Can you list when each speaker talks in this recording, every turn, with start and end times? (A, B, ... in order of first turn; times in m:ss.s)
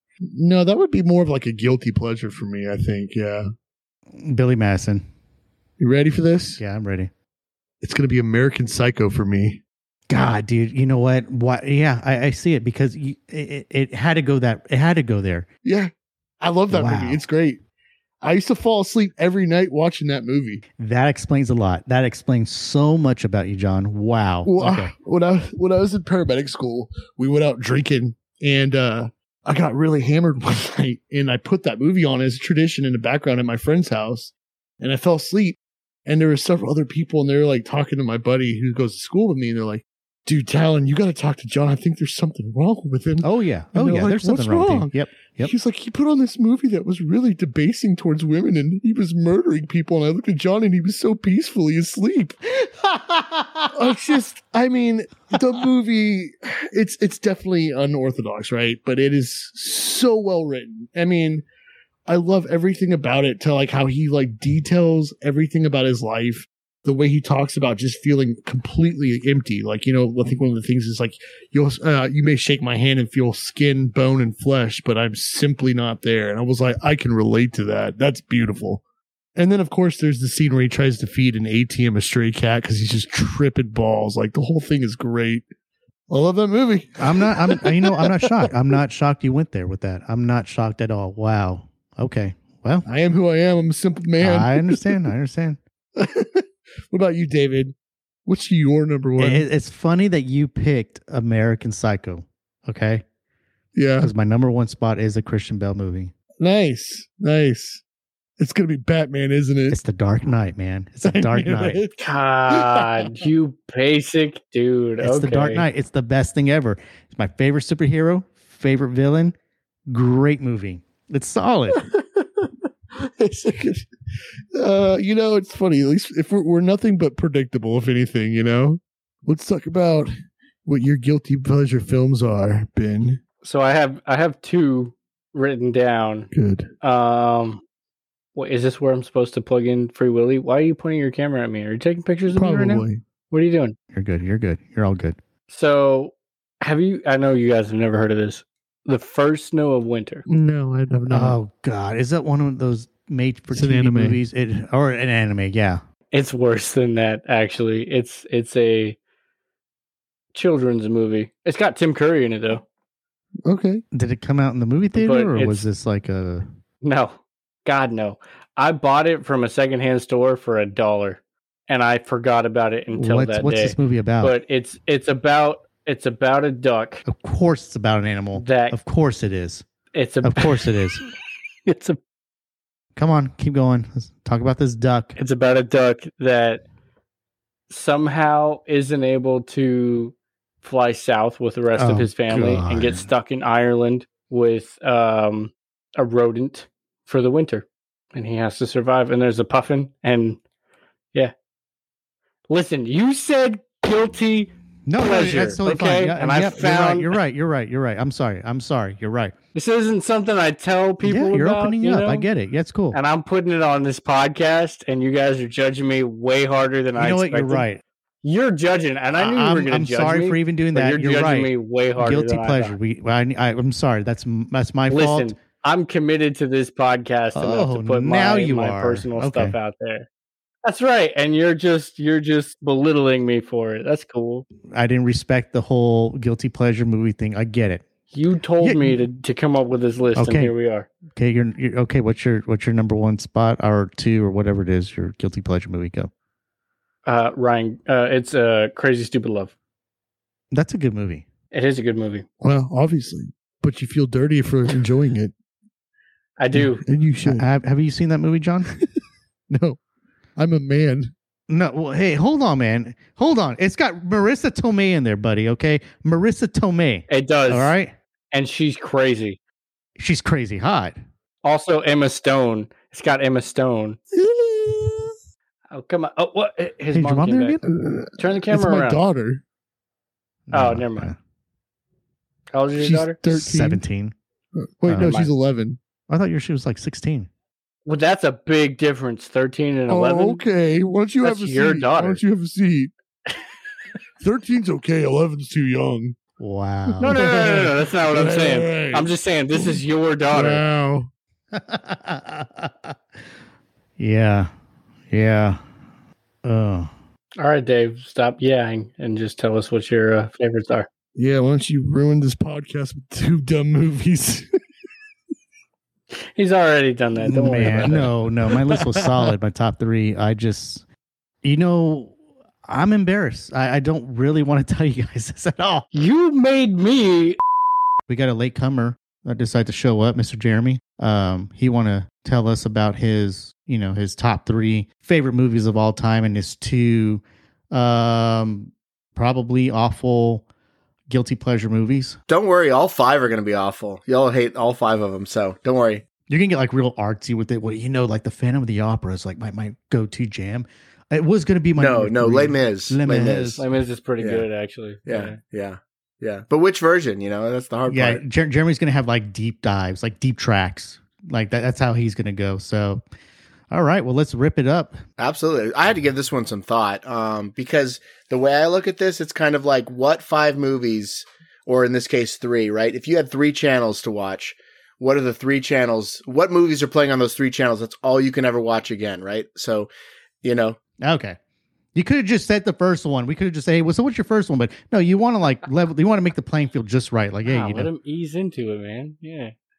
0:00.3-0:03.5 A
0:04.1-0:05.0 B
0:05.8-0:06.6 A
0:06.6-0:07.1 B
0:07.8-0:09.6 A
0:10.1-0:15.5 B
0:15.6-0:17.6 A
0:16.7-0:17.2 B
0:18.2-0:20.6 A
0:20.8-0:24.9 B
0:24.4-0:52.4 A
0:43.2-0:45.5 B
0:52.5-0:54.0 B
0:53.7-1:01.4 A
1:02.1-1:18.8 A
1:19.4-1:25.4 A
1:26.1-1:28.5 A
1:27.0-1:32.9 B
1:32.9-1:35.0 A
1:34.2-1:35.6 B
1:36.0-1:37.8 A
1:38.3-1:39.5 A
1:39.2-1:43.0 B
1:43.8-1:44.1 A
1:44.0-1:46.1 B
1:46.4-1:47.8 A
1:48.4-1:49.8 A
1:49.7-1:51.8 B
1:51.0-1:52.0 A
1:52.0-1:55.7 C
1:52.5-1:53.1 A
1:55.0-1:59.4 B
1:59.9-2:01.8 B
2:01.9-2:03.9 A
2:04.5-2:10.1 A
2:10.7-2:13.2 A
2:13.4-2:16.3 C
2:16.3-2:16.7 A
2:16.8-2:17.6 C
2:18.4-2:23.8 C
2:22.3-2:23.0 A
2:23.9-2:25.2 B
2:25.5-2:30.3 C
2:30.3-2:31.4 A
2:31.1-2:35.8 B
2:33.5-2:34.2 A
2:36.1-2:39.0 C
2:40.3-2:42.6 C
2:43.5-2:43.8 A
2:43.9-2:46.4 B
2:45.0-2:45.6 C
2:46.8-2:57.0 C
2:52.9-2:54.4 B
2:57.1-2:59.6 B
2:58.4-2:58.8 C
2:59.9-3:01.1 C
3:00.2-3:01.0 B
3:01.7-3:02.0 C
3:03.0-3:05.2 B
3:05.2-3:06.6 C
3:07.7-3:20.4 C
3:11.8-3:13.1 B
3:22.5-3:27.2 C
3:24.9-3:29.3 B
3:29.6-3:32.3 C
3:31.0-3:33.0 B
3:32.9-3:37.6 C
3:37.0-3:37.8 B
3:38.2-3:42.8 C
3:39.1-3:45.3 B
3:44.9-3:50.1 C
3:47.3-3:49.6 B
3:50.6-3:54.4 C
3:54.7-3:57.9 B
3:58.1-4:00.9 C
3:58.6-3:59.0 B
4:00.2-4:00.5 B
4:01.1-4:06.1 B
4:07.1-4:09.5 C
4:10.5-4:11.3 B
4:11.5-4:12.3 C
4:12.4-4:15.3 A
4:16.4-4:16.8 C
4:16.5-4:17.5 A
4:17.2-4:18.7 B
4:19.5-4:19.8 A
4:20.4-4:21.1 A
4:21.5-4:27.9 B
4:27.1-4:27.7 C
4:28.3-4:29.4 C
4:30.0-4:31.0 B
4:31.4-4:34.0 C
4:34.1-4:35.2 A
4:35.7-4:37.6 C
4:36.9-4:37.6 B
4:37.7-4:39.4 A
4:38.2-4:39.0 C
4:40.5-4:41.2 B
4:40.5-4:41.1 C
4:42.5-4:43.2 C
4:42.8-4:43.8 A
4:43.3-4:44.1 B
4:44.6-4:45.8 A
4:44.9-4:45.2 B
4:45.0-4:45.3 C
4:46.1-4:47.3 B
4:47.9-4:50.4 C
4:49.9-4:52.9 A
4:51.2-4:52.2 C
4:54.2-4:56.2 A
4:56.4-4:57.3 B
4:57.0-4:59.8 A
4:57.0-5:00.6 C
5:00.3-5:01.1 A
5:01.5-5:03.0 B
5:04.0-5:04.5 B
5:05.1-5:05.6 B
5:06.4-5:06.9 B
5:07.4-5:10.9 C
5:11.2-5:14.5 A
5:16.4-5:18.1 C
5:17.2-5:20.8 B
5:17.6-5:18.1 A
5:21.4-5:22.1 B
5:22.6-5:25.9 B
5:25.9-5:27.4 C
5:28.1-5:40.4 B
5:41.1-5:42.2 B
5:42.3-5:46.0 D
5:46.3-5:53.6 B
5:51.8-5:53.7 D
5:53.6-5:55.4 C
5:54.2-5:54.5 D
5:55.1-5:58.2 D
5:57.9-6:03.0 B
6:03.7-6:05.0 B
6:05.2-6:19.9 D
6:20.4-6:20.8 D
6:21.0-6:21.4 B
6:22.0-6:27.9 B
6:27.4-6:29.5 C